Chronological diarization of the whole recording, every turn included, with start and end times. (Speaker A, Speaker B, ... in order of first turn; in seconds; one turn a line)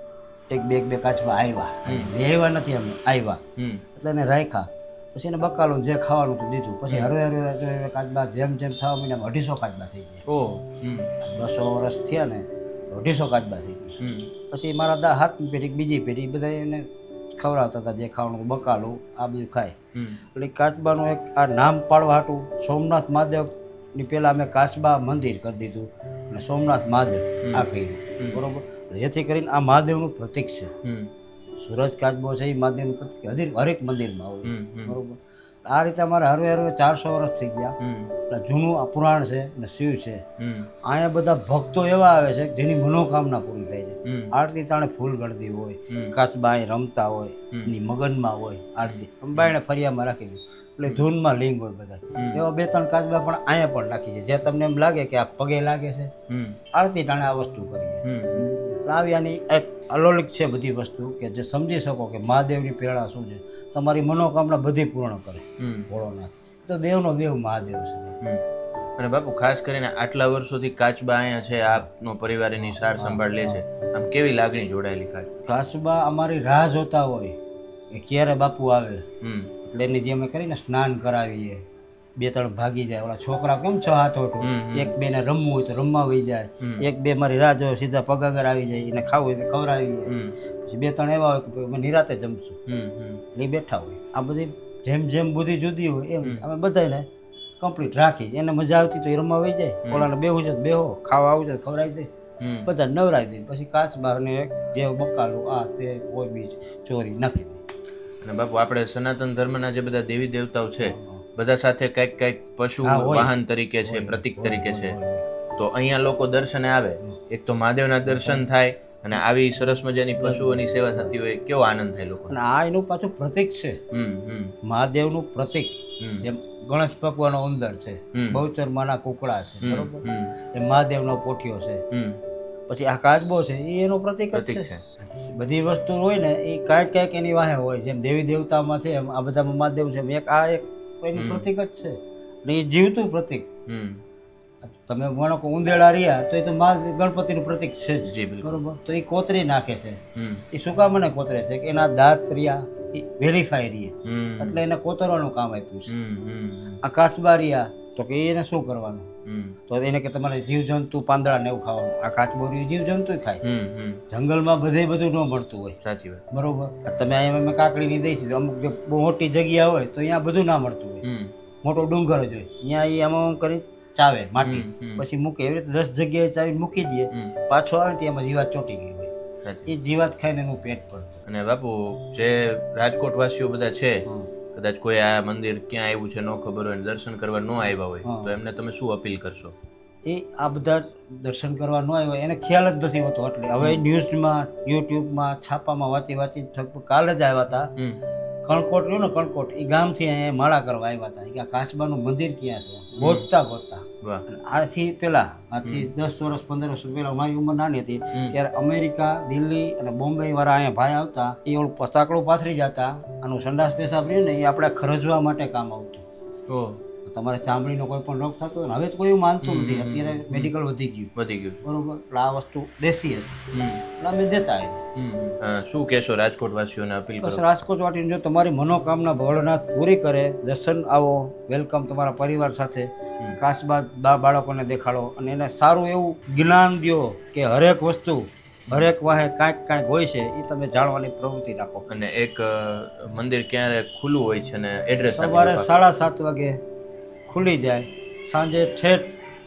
Speaker A: 0.5-3.4
Speaker B: 1.8-2.1
Speaker B: 3.6-3.8
Speaker A: 4.0-10.3
Speaker B: 10.3-11.1
Speaker A: 11.2-19.8
Speaker B: 14.0-14.3
Speaker A: 20.3-30.7
Speaker B: 30.8-31.1
Speaker A: 31.6-37.8
Speaker B: 34.5-35.0
Speaker B: 37.8-38.1
Speaker A: 38.3-40.2
Speaker B: 40.4-40.7
Speaker A: 40.9-56.1
Speaker B: 44.0-44.3
Speaker B: 52.1-52.4
Speaker B: 56.3-56.6
Speaker A: 56.7-68.2
Speaker B: 58.0-58.5
Speaker B: 65.6-65.9
Speaker B: 69.0-75.3
Speaker A: 72.6-73.6
Speaker A: 75.4-77.4
Speaker A: 77.9-79.1
Speaker B: 79.2-79.5
Speaker A: 79.6-81.6
Speaker A: 82.2-92.6
Speaker B: 84.4-84.9
Speaker B: 86.6-86.8
Speaker B: 90.1-90.3
Speaker B: 92.7-93.2
Speaker A: 93.3-97.1
Speaker A: 97.6-102.1
Speaker B: 102.4-102.7
Speaker A: 102.7-107.6
Speaker B: 108.2-114.9
Speaker A: 110.8-111.2
Speaker A: 112.8-113.3
Speaker A: 113.8-115.2
Speaker B: 115.6-122.3
Speaker A: 118.1-118.4
Speaker A: 120.2-121.1
Speaker A: 122.3-123.8
Speaker B: 123.9-124.5
Speaker A: 124.6-130.0
Speaker B: 126.0-126.2
Speaker B: 128.1-128.4
Speaker B: 129.6-130.3
Speaker A: 130.5-131.8
Speaker B: 131.9-132.2
Speaker A: 132.7-143.5
Speaker B: 134.3-134.8
Speaker B: 141.1-141.4
Speaker B: 143.7-144.0
Speaker A: 144.7-150.0
Speaker B: 148.0-148.6
Speaker B: 150.1-150.4
Speaker A: 150.5-155.9
Speaker B: 154.0-154.6
Speaker B: 155.9-156.8
Speaker A: 156.8-159.1
Speaker B: 159.2-159.6
Speaker A: 159.7-163.4
Speaker B: 163.4-164.0
Speaker A: 164.1-165.8
Speaker B: 165.8-166.2
Speaker A: 166.3-171.0
Speaker B: 171.0-171.3
Speaker A: 171.6-179.1
Speaker B: 174.4-175.0
Speaker B: 179.4-179.7
Speaker A: 179.7-181.2
Speaker B: 181.2-189.5
Speaker A: 188.0-188.3
Speaker A: 190.1-197.7
Speaker A: 198.4-216.1
Speaker B: 203.0-203.2
Speaker B: 205.6-205.9
Speaker B: 216.5-216.8
Speaker A: 217.0-221.1
Speaker B: 219.4-220.5
Speaker B: 221.2-221.6
Speaker A: 221.6-223.4
Speaker B: 223.5-223.8
Speaker A: 224.0-224.8
Speaker B: 224.9-227.4
Speaker A: 227.2-241.9
Speaker B: 241.9-245.7
Speaker A: 245.1-246.6
Speaker A: 247.3-249.1